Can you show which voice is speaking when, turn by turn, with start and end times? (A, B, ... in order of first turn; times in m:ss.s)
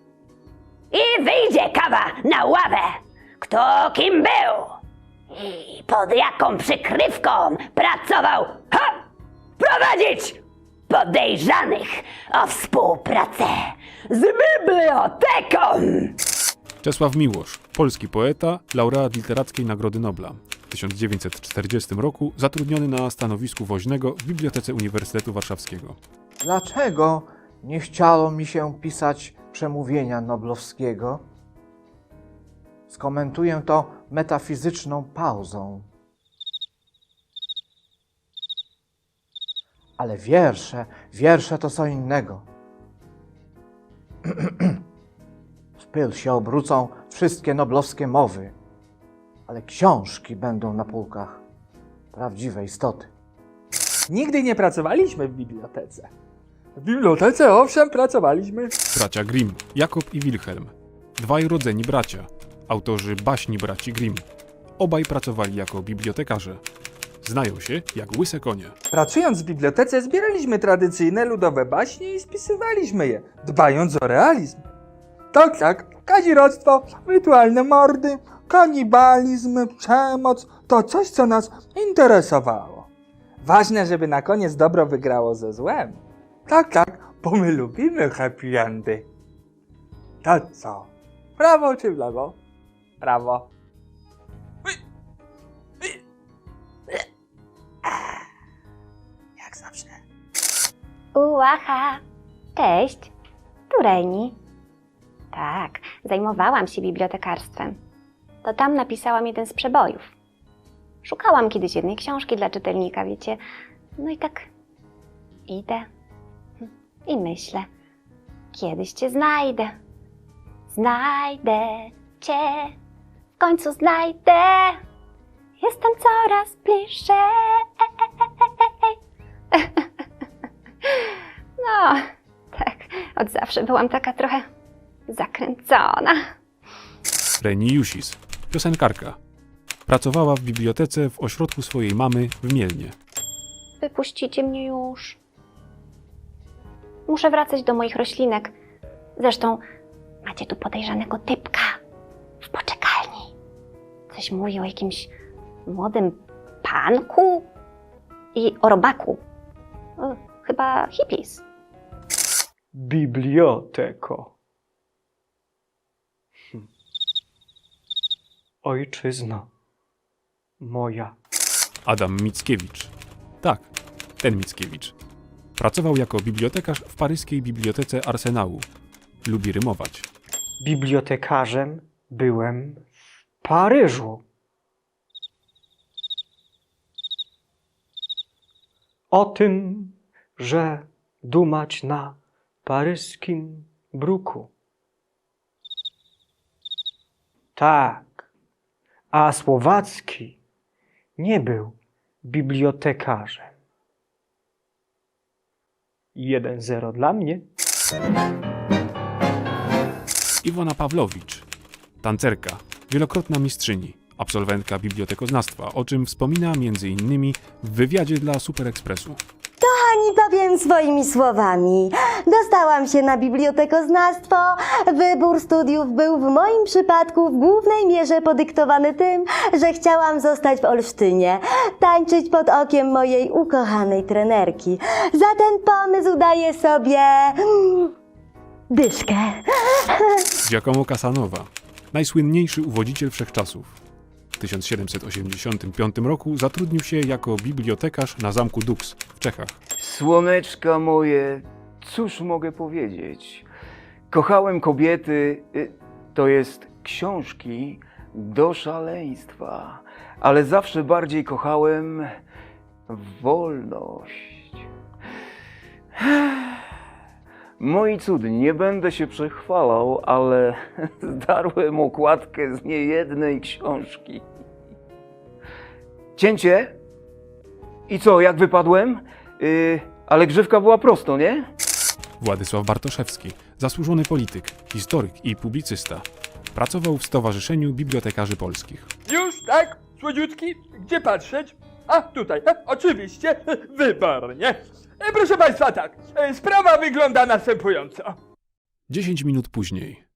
0:00.9-0:04.8 A
0:05.3-0:09.0 A
0:09.6-0:16.2 A
0:16.8-0:26.0 B
0:26.4-0:31.2 C
0:32.9-0:35.9 C
0:40.0-0:42.5 C
0:44.3-0:44.8 C
0:45.8-0:48.5 C
0:49.5-0:51.4 C
0:52.1-0:53.1 C
0:54.1-0:56.1 D
0:56.8-0:58.7 D
0:58.9-1:04.2 B
1:04.8-1:06.6 B
1:07.2-1:08.7 B
1:08.9-1:14.6 D
1:15.3-1:22.8 D
1:23.4-1:29.1 D
1:30.2-1:32.4 D
1:33.0-1:33.5 D
1:39.4-1:39.9 D
1:41.2-1:42.0 E
1:42.6-1:43.1 E
1:43.7-1:44.4 E
1:45.3-1:47.8 E
1:48.4-1:50.1 E
1:51.0-1:53.4 E
1:54.0-1:54.5 E
1:55.5-1:55.9 E
1:56.6-1:57.7 E
1:58.5-1:59.7 E
2:00.7-2:02.8 E
2:03.4-2:04.8 E
2:05.6-2:07.7 E
2:08.4-2:08.9 E
2:09.5-2:09.9 E
2:10.8-2:14.4 E
2:15.1-2:16.2 E
2:17.4-2:19.2 B
2:19.8-2:22.9 B
2:23.8-2:25.2 E
2:27.1-2:28.5 E
2:29.2-2:29.6 E
2:30.2-2:31.8 E
2:32.4-2:33.3 E
2:34.1-2:35.1 E
2:35.7-2:37.5 E
2:38.3-2:39.2 E
2:40.0-2:41.4 E
2:42.7-2:44.3 F
2:48.6-2:49.5 F
2:50.6-2:51.1 F
2:51.8-2:54.9 B
2:55.6-2:58.7 B
2:59.2-3:00.1 B
3:00.6-3:02.9 F
3:03.4-3:04.2 F
3:09.1-3:14.5 F
3:17.6-3:18.2 F
3:19.1-3:20.4 F
3:21.2-3:23.5 F
3:26.1-3:27.5 F
3:30.4-3:31.5 B
3:32.0-3:39.2 B
3:39.7-3:44.5 G
3:45.0-3:57.3 G
3:58.7-3:59.2 G
4:00.4-4:03.8 B
4:04.4-4:09.5 B
4:09.8-4:13.5 H
4:14.1-4:22.2 H
4:22.9-4:24.6 H
4:26.0-4:26.6 H
4:27.6-4:34.3 H
4:36.2-4:36.8 H
4:37.9-4:41.5 H
4:42.2-4:48.9 B
4:49.1-4:58.2 D
4:58.9-5:00.0 B